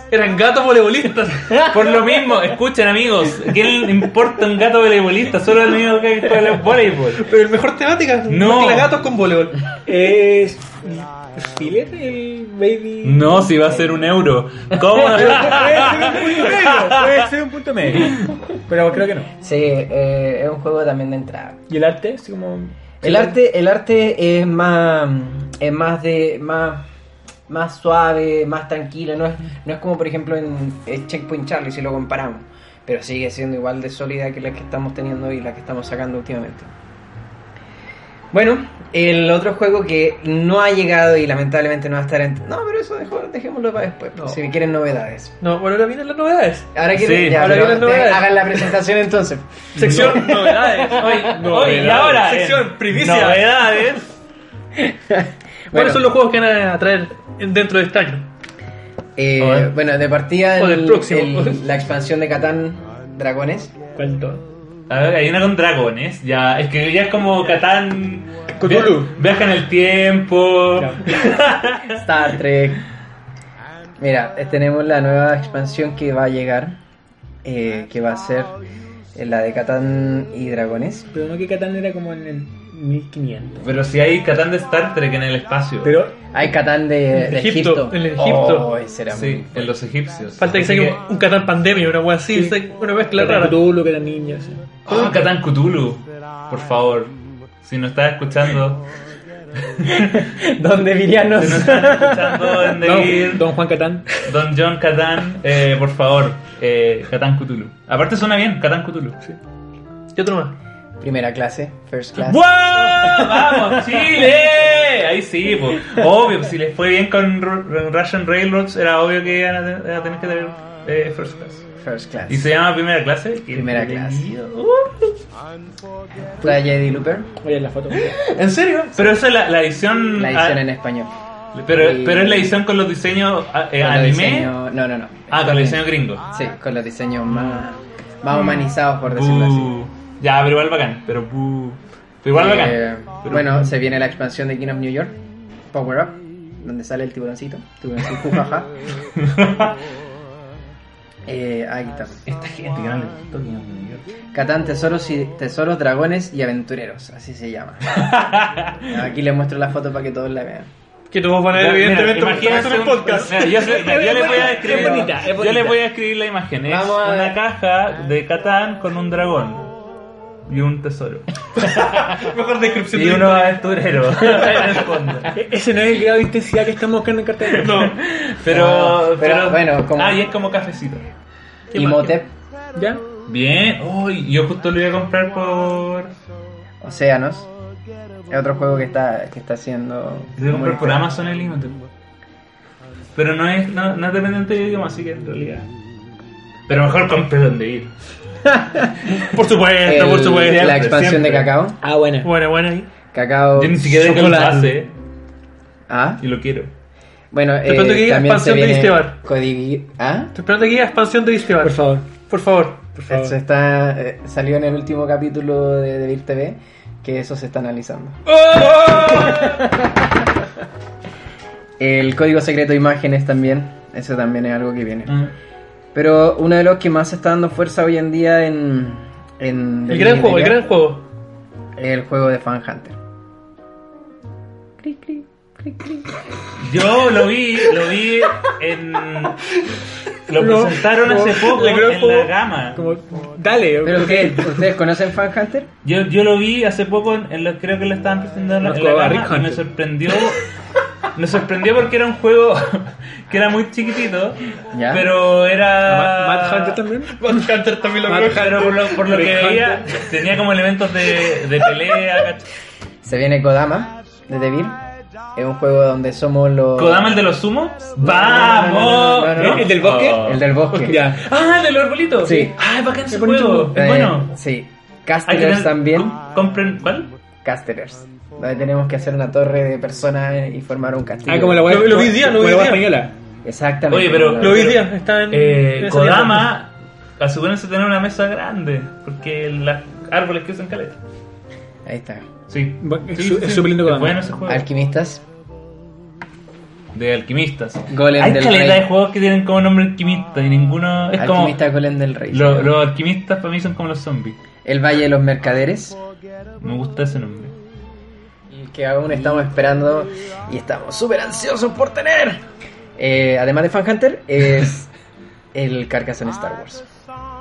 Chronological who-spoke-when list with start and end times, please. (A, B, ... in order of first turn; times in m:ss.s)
0:00.1-0:01.7 A
0:01.6-0:07.3 B
0:07.2-0:09.6 A
0:08.3-0:09.0 B
0:09.9-0:13.9 C
0:13.0-0:16.9 B
0:14.9-0:19.3 C
0:19.4-0:21.6 D
0:21.7-0:23.4 C
0:23.0-0:26.9 D
0:27.5-0:36.7 D
0:38.3-0:45.4 D
0:45.4-0:46.7 A
0:46.7-0:51.3 D
0:47.0-0:47.8 B
0:47.2-0:48.7 A
0:49.7-0:53.6 A
0:49.8-0:50.2 B
0:50.9-0:54.1 B
0:51.4-0:52.1 C
0:54.7-0:56.1 D
0:55.7-0:58.3 A
0:59.2-1:03.8 D
0:59.4-0:59.7 B
1:00.6-1:01.7 A
1:04.0-1:04.4 C
1:04.9-1:12.0 B
1:08.5-1:09.2 C
1:10.8-1:11.1 C
1:11.9-1:12.9 D
1:14.0-1:16.8 D
1:17.4-1:18.5 D
1:19.1-1:21.1 D
1:21.1-1:23.6 C
1:23.6-1:25.9 B
1:25.8-1:26.3 C
1:26.3-1:29.7 D
1:27.2-1:28.7 A
1:29.1-1:31.0 B
1:30.4-1:33.6 A
1:32.3-1:32.6 C
1:33.1-1:34.6 C
1:34.9-1:38.9 B
1:39.6-1:40.2 B
1:39.8-1:42.7 D
1:41.4-1:43.5 B
1:42.8-1:44.3 C
1:44.2-1:49.2 B
1:50.1-1:50.6 A
1:51.0-1:53.4 D
1:52.2-2:01.6 B
2:01.8-2:02.5 D
2:02.3-2:05.2 B
2:03.5-2:04.3 D
2:06.4-2:07.3 D
2:07.4-2:08.2 C
2:08.2-2:10.6 B
2:10.2-2:11.1 D
2:11.6-2:14.6 B
2:11.7-2:12.6 D
2:13.8-2:19.8 D
2:15.3-2:16.2 B
2:17.3-2:17.6 B
2:18.3-2:23.7 B
2:22.3-2:25.2 D
2:25.7-2:28.7 D
2:29.2-2:29.7 B
2:31.3-2:32.2 D
2:32.3-2:34.1 B
2:34.3-2:38.2 D
2:37.9-2:39.0 B
2:38.8-2:40.7 D
2:41.1-2:43.6 A
2:41.5-2:49.7 B
2:43.0-2:45.8 C
2:44.6-2:45.1 D
2:46.6-2:47.4 D
2:50.4-2:52.2 B
2:51.6-2:53.6 A
2:52.9-2:55.3 B
2:55.3-2:57.8 C
2:57.5-2:58.0 A
2:57.7-3:01.0 B
2:58.4-3:00.3 D
3:01.7-3:02.1 C
3:01.7-3:02.3 D
3:02.7-3:03.0 C
3:03.3-3:06.1 B
3:06.8-3:07.5 D
3:08.3-3:11.1 D
3:10.4-3:11.8 B
3:13.1-3:15.7 B
3:16.7-3:17.9 B
3:18.4-3:18.9 D
3:19.3-3:20.8 A
3:19.8-3:21.8 D
3:20.4-3:21.5 B
3:21.8-3:22.3 C
3:22.2-3:22.9 A
3:23.1-3:24.7 D
3:23.6-3:24.9 B
3:25.9-3:26.2 D
3:26.2-3:26.7 B
3:27.3-3:30.3 D
3:27.6-3:29.2 A
3:30.3-3:33.0 A
3:31.6-3:32.1 C
3:33.0-3:33.3 C
3:33.1-3:38.3 D
3:38.3-3:39.6 A
3:38.8-3:40.2 D
3:41.8-3:45.2 D
3:45.1-3:45.3 B
3:45.9-3:50.6 D
3:49.9-3:51.0 A
3:51.8-3:53.0 D
3:54.8-3:56.2 D
3:56.6-3:59.5 B
4:00.3-4:02.8 B
4:00.3-4:04.7 C
4:03.8-4:05.7 D
4:05.8-4:10.5 B
4:08.6-4:09.6 C
4:11.1-4:14.4 B
4:14.7-4:15.1 D
4:14.9-4:16.8 B
4:15.8-4:18.4 C
4:17.1-4:20.0 A
4:18.1-4:22.5 B
4:19.1-4:19.8 C
4:23.0-4:24.8 D
4:25.3-4:27.2 D
4:26.8-4:34.3 B
4:28.0-4:31.1 D
4:29.4-4:31.2 C
4:32.2-4:32.6 D
4:33.1-4:33.7 C
4:33.7-4:36.2 D
4:35.3-4:37.1 B
4:37.4-4:41.8 D
4:41.3-4:43.1 C
4:41.6-4:43.0 A
4:43.4-4:44.9 D
4:43.9-4:51.0 B
4:44.4-4:46.5 A
4:51.8-4:52.3 D
4:52.5-4:54.6 B
4:52.8-4:54.2 C
4:54.5-4:55.2 D
4:57.0-5:01.6 B
4:57.9-4:58.9 D
5:01.2-5:02.8 D
5:02.3-5:04.4 B
5:04.6-5:06.0 D
5:06.6-5:07.6 B
5:08.5-5:12.4 D
5:13.0-5:14.9 D
5:15.5-5:16.8 D